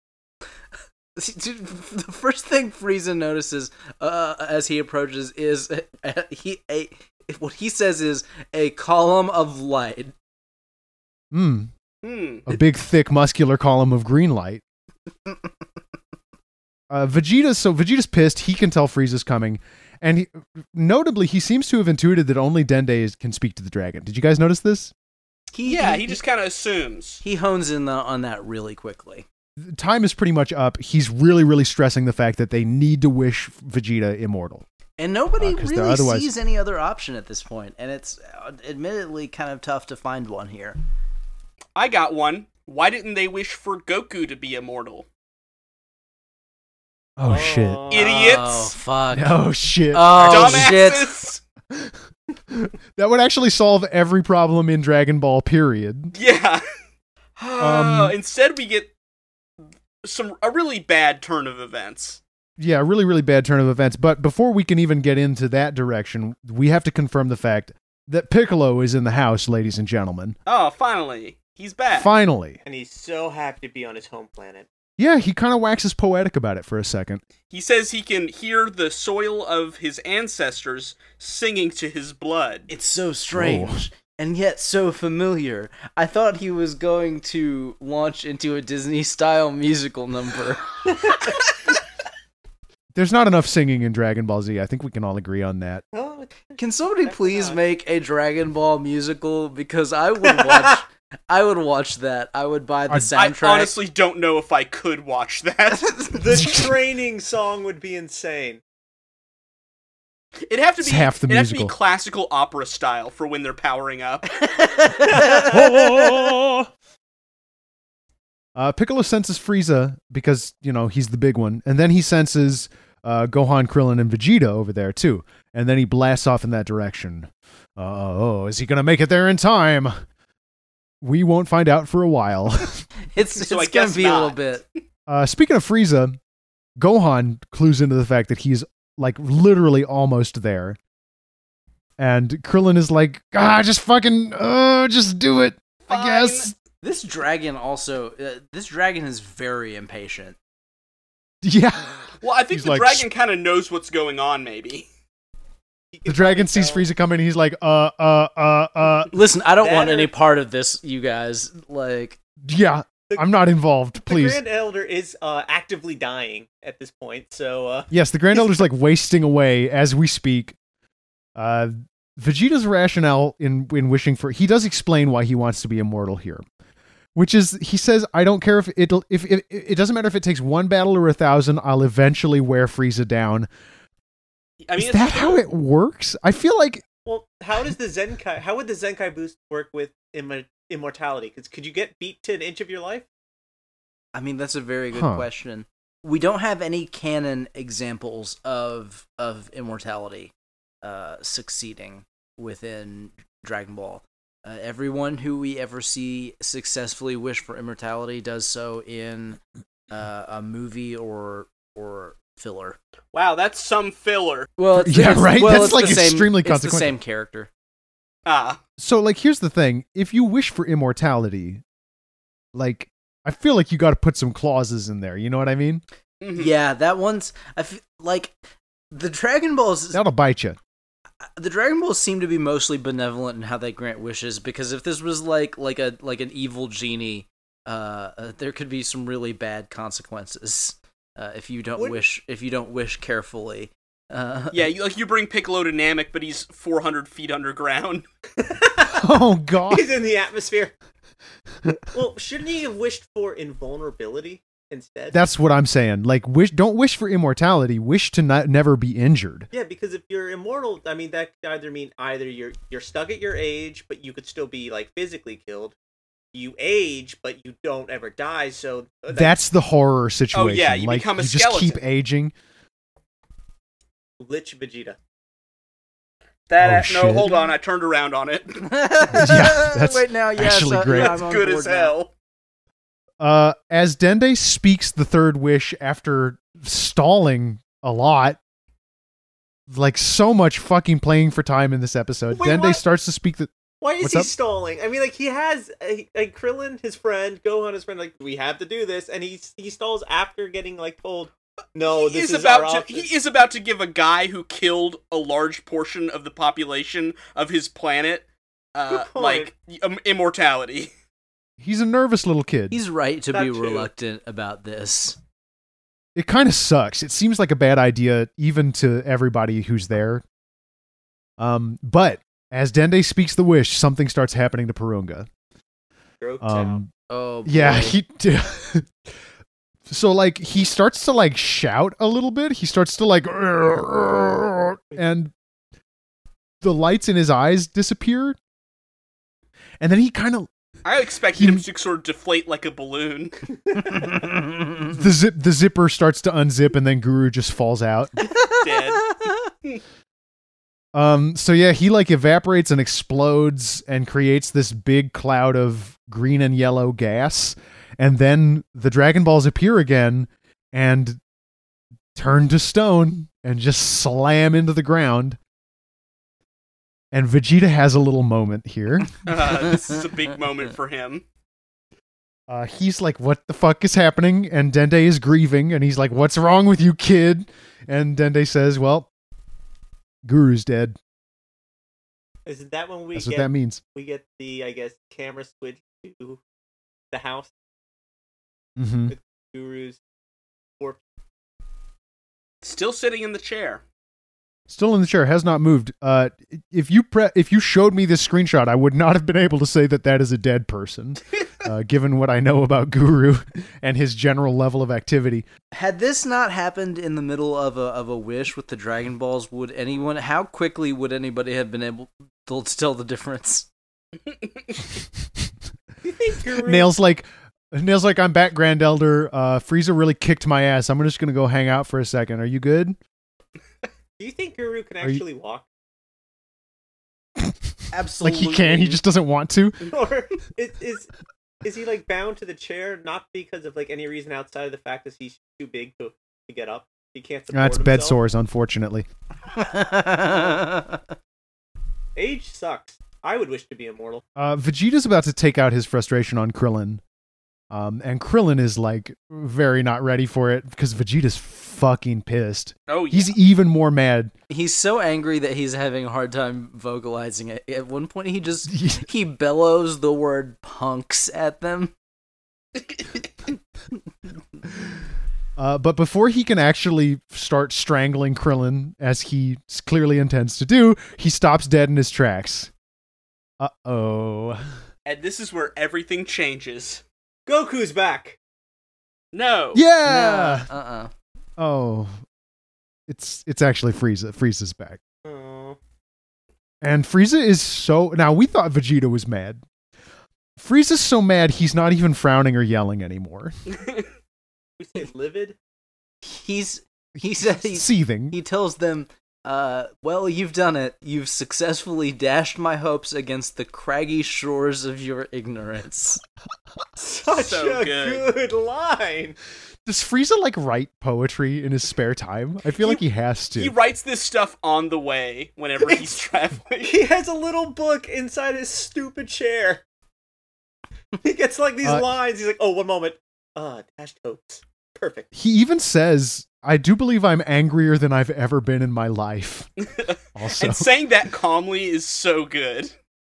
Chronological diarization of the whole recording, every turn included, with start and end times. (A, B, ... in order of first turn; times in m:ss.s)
0:01.2-0:10.1 A
0:11.3-0:11.7 B
0:12.0-0:12.5 C
0:12.5-0:14.6 B
0:16.9-0:24.9 B
0:25.5-0:26.2 A
0:25.6-0:27.2 C
0:27.2-0:29.3 A
0:29.6-0:34.6 B
0:35.0-0:40.8 A
0:35.4-0:36.3 B
0:41.8-0:45.1 C
0:47.2-0:47.9 B
0:47.3-0:48.4 D
0:47.9-0:48.7 C
0:48.0-0:49.4 A
0:49.1-0:50.8 B
0:49.9-0:51.4 A
0:50.2-0:51.4 C
0:52.5-0:56.1 B
0:56.2-0:56.6 C
0:57.4-0:58.9 C
0:57.6-0:58.2 B
1:00.0-1:02.2 C
1:02.6-1:10.4 B
1:10.5-1:12.1 C
1:11.9-1:12.6 B
1:12.6-1:14.7 D
1:15.0-1:17.2 B
1:17.5-1:22.7 C
1:22.7-1:31.2 A
1:23.3-1:23.8 B
1:32.9-1:35.8 B
1:35.9-1:37.6 D
1:36.6-1:43.7 A
1:40.3-1:40.8 D
1:43.2-1:46.2 C
1:46.1-1:48.6 D
1:46.4-1:46.7 B
1:50.5-1:54.3 C
1:50.8-1:51.7 B
1:54.6-1:55.5 A
1:55.1-1:56.2 D
1:55.3-1:56.7 B
1:58.6-2:09.9 B
2:11.0-2:12.8 B
2:13.0-2:14.6 A
2:13.4-2:14.6 C
2:15.1-2:16.2 B
2:16.8-2:20.8 B
2:22.0-2:26.5 B
2:25.9-2:26.5 C
2:26.8-2:30.4 A
2:31.4-2:33.1 B
2:32.2-2:34.9 C
2:35.9-2:36.8 D
2:36.1-2:39.1 B
2:39.1-2:42.2 A
2:39.6-2:40.1 D
2:42.4-2:44.4 B
2:44.1-2:48.6 D
2:47.9-2:50.6 B
2:51.4-2:56.4 B
2:57.2-3:03.5 B
3:04.6-3:05.4 C
3:04.8-3:06.8 B
3:07.0-3:13.1 D
3:14.1-3:32.8 A
3:14.9-3:15.2 B
3:33.1-3:34.5 C
3:34.6-3:37.5 A
3:34.8-3:37.0 B
3:38.3-3:38.6 C
3:38.8-3:41.6 B
3:42.5-3:45.8 B
3:46.2-3:46.5 C
3:46.4-3:48.3 A
3:48.9-3:50.0 A
3:49.9-3:50.6 B
3:51.4-4:04.7 A
4:04.5-4:08.0 C
4:08.4-4:09.1 D
4:09.0-4:09.9 B
4:09.7-4:10.7 D
4:11.9-4:15.2 D
4:15.1-4:19.5 B
4:19.5-4:25.8 D
4:26.3-4:29.4 D
4:29.1-4:32.3 B
4:30.3-4:31.8 C
4:34.2-4:35.0 D
4:36.5-4:38.7 C
4:36.6-4:37.4 B
4:38.6-4:41.9 A
4:39.1-4:41.2 B
4:40.9-4:42.1 C
4:43.2-4:48.4 B
4:49.7-4:54.3 B
4:52.3-4:52.8 D
4:53.8-5:03.1 D
5:01.9-5:10.9 C
5:08.9-5:09.5 D
5:11.6-5:12.8 B
5:12.7-5:15.2 A
5:13.3-5:13.9 D
5:16.2-5:20.2 B
5:21.4-5:25.3 B
5:26.2-5:26.8 D
5:26.4-5:26.9 B
5:27.1-5:28.0 A
5:27.5-5:28.9 B
5:29.9-5:35.3 B
5:36.6-5:38.4 B
5:39.8-5:40.5 B
5:40.8-5:43.3 C
5:41.3-5:41.6 B
5:44.3-5:44.7 A
5:44.9-5:48.1 B
5:48.3-5:49.3 A
5:48.6-5:49.8 C
5:50.9-6:01.2 B
6:02.2-6:05.4 B
6:07.1-6:09.2 B
6:09.2-6:11.2 C
6:12.5-6:19.1 B
6:20.2-6:21.0 B
6:22.5-6:26.4 D
6:23.2-6:23.8 B
6:27.1-6:27.5 D
6:28.8-6:29.2 B
6:29.1-6:30.0 D
6:32.6-6:33.8 C
6:34.7-6:45.5 B
6:45.7-6:53.7 A
6:56.0-6:56.9 D
6:56.5-7:03.0 B
7:04.2-7:05.7 D
7:07.9-7:09.0 A
7:08.2-7:09.8 B
7:09.9-7:11.1 D
7:11.6-7:18.2 D
7:17.5-7:19.1 B
7:19.5-7:21.0 A
7:20.3-7:20.6 D
7:22.2-7:24.2 D
7:24.4-7:27.0 B
7:27.7-7:34.3 B
7:32.9-7:33.4 C
7:34.5-7:41.9 A
7:38.7-7:39.1 B
7:45.6-7:52.7 B
7:53.6-7:54.6 B
7:55.1-7:57.0 C
7:57.5-7:58.4 D
7:59.3-7:59.8 C
7:59.7-8:00.7 B
8:00.0-8:01.1 A
8:01.6-8:02.1 B
8:03.1-8:05.0 B
8:05.2-8:05.8 D
8:06.8-8:09.6 B
8:10.6-8:13.6 B
8:14.8-8:15.6 D
8:16.2-8:26.2 A
8:17.4-8:18.4 B
8:27.0-8:29.4 D
8:27.3-8:28.3 C
8:29.9-8:33.8 B
8:33.6-8:37.0 C
8:35.8-8:36.2 D
8:36.8-8:39.8 D
8:41.2-8:45.3 D
8:45.3-8:49.7 B
8:49.8-8:52.9 C
8:50.4-8:50.9 B